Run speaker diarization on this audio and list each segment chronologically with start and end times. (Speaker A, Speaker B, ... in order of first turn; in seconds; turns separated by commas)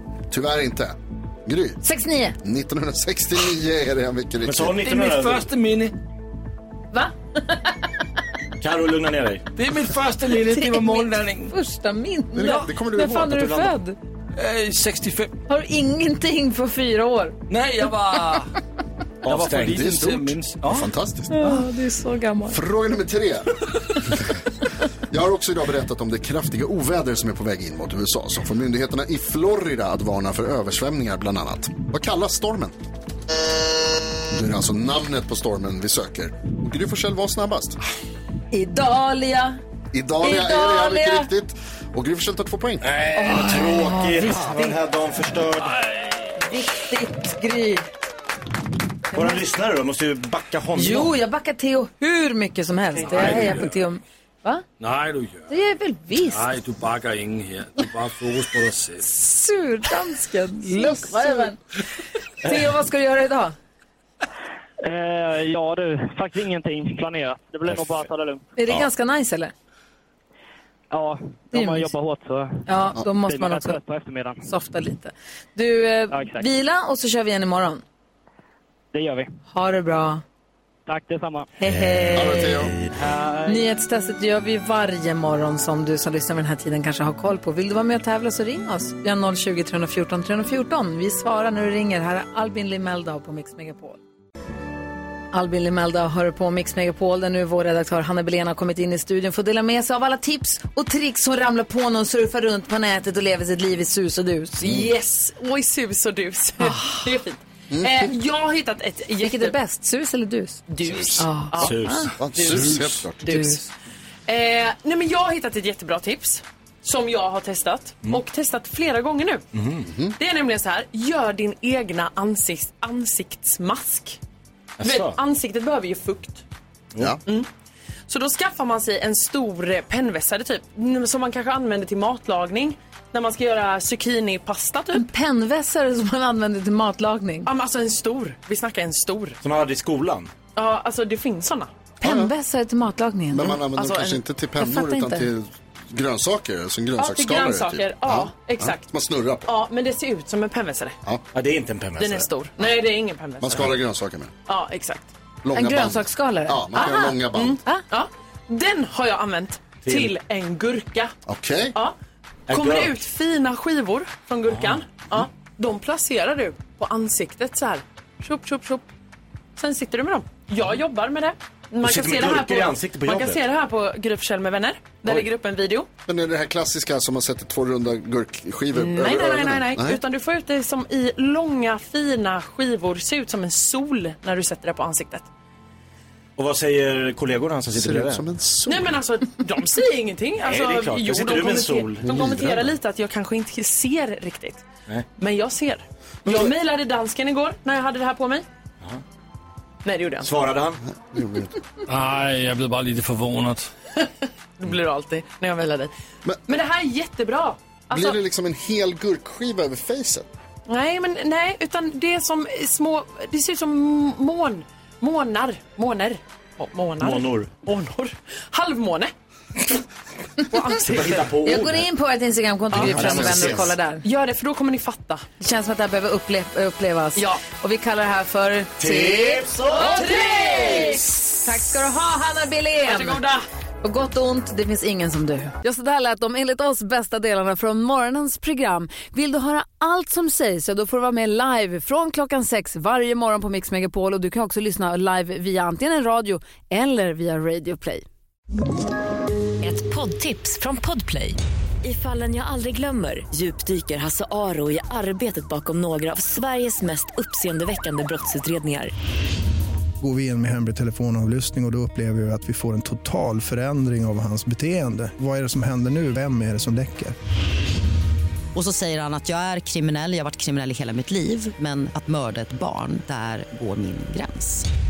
Speaker A: 0.3-1.8, Speaker B: 1.8-2.4, Speaker A: 2.4-4.8, Speaker C: 4.4-5.5, Speaker D: 4.8-5.9, Speaker B: 6.9-7.8, Speaker C: 8.6-9.5, Speaker D: 9.6-11.5, Speaker B: 10.3-13.9, Speaker A: 12.3-13.4, Speaker C: 13.1-13.7, Speaker D: 14.3-15.3, Speaker B: 15.5-17.4, Speaker D: 17.5-18.5, Speaker C: 19.2-19.9, Speaker D: 19.2-20.9, Speaker A: 19.6-21.5, Speaker B: 21.3-22.6, Speaker A: 22.5-23.6, Speaker A: 25.1-32.8, Speaker A: 34.3-37.8, Speaker B: 38.5-39.6, Speaker A: 39.9-42.9, Speaker B: 40.2-41.3, Speaker C: 42.9-45.8, Speaker B: 43.1-44.8, Speaker D: 45.8-46.3, Speaker B: 46.4-47.8, Speaker C: 49.1-51.1, Speaker B: 50.7-54.6, Speaker D: 53.0-53.6, Speaker C: 53.1-53.5, Speaker D: 54.8-55.5, Speaker B: 55.5-56.5, Speaker D: 56.2-59.0, Speaker B: 59.0-61.6, Speaker B: 62.4-63.5, Speaker E: 64.8-68.4, Speaker C: 67.7-68.0, Speaker B: 68.5-69.5, Speaker E: 70.9-74.4, Speaker B: 71.5-71.9, Speaker B: 72.7-73.8, Speaker B: 74.4-77.8, Speaker E: 76.1-76.5, Speaker E: 78.9-79.3, Speaker B: 79.5-80.2, Speaker E: 80.9-81.5, Speaker B: 81.6-82.6, Speaker C: 81.7-83.0, Speaker A: 82.1-82.7, Speaker E: 82.9-83.7, Speaker B: 83.4-94.0, Speaker B: 95.3-104.8, Speaker F: 104.6-109.5, Speaker B: 106.6-107.1, Speaker A: 107.7-108.1, Speaker B: 109.2-110.6, Speaker F: 110.7-111.7, Speaker A: 110.8-113.3, Speaker B: 111.2-112.6, Speaker C: 111.6-112.1, Speaker F: 112.3-113.7, Speaker B: 113.2-113.6, Speaker F: 114.3-119.4, Speaker C: 119.5-119.9, Speaker A: 119.8-120.1, Speaker F: 120.2-124.2, Speaker C: 124.8-125.2, Speaker F: 124.8-126.4, Speaker F: 128.1-135.0, Speaker B: 134.9-137.5, Speaker F: 137.4-139.4, Speaker C: 139.4-140.3, Speaker F: 140.6-141.7, Speaker B: 142.0-143.6, Speaker A: 142.0-142.3, Speaker A: 143.3-149.5, Speaker F: 143.7-144.2, Speaker B: 144.6-145.3, Speaker F: 147.0-148.8, Speaker F: 149.4-151.0, Speaker C: 151.3-152.3, Speaker F: 152.0-153.7, Speaker A: 153.4-154.3, Speaker F: 154.5-155.1, Speaker A: 155.4-157.6, Speaker B: 155.5-157.1, Speaker F: 156.8-161.1, Speaker C: 159.8-160.1, Speaker A: 161.2-161.8, Speaker C: 162.5-162.9, Speaker F: 162.5-168.8, Speaker F: 169.6-175.9, Speaker C: 171.8-173.4, Speaker A: 176.1-180.0, Speaker F: 178.7-185.3, Speaker C: 186.4-188.2, Speaker A: 187.7-189.0, Speaker F: 188.7-194.6, Speaker C: 190.4-192.7, Speaker F: 195.2-198.4, Speaker F: 199.8-200.3, Speaker C: 200.2-200.8, Speaker A: 200.9-201.5, Speaker D: 201.9-203.7, Speaker F: 204.6-205.9, Speaker F: 206.5-208.2, Speaker A: 207.9-210.3, Speaker F: 210.7-219.1, Speaker C: 217.0-217.5, Speaker F: 220.5-221.3, Speaker C: 220.8-221.9, Speaker B: 221.4-224.0, Speaker A: 222.7-223.7, Speaker C: 222.7-223.7, Speaker F: 224.0-225.3, Speaker B: 225.4-233.2, Speaker F: 227.2-227.4, Speaker C: 228.8-230.2, Speaker F: 229.8-231.1, Speaker F: 232.8-233.4, Speaker B: 233.8-248.1, Speaker G: 249.6-258.9, Speaker H: 260.0-267.1, Speaker I: 268.6-274.6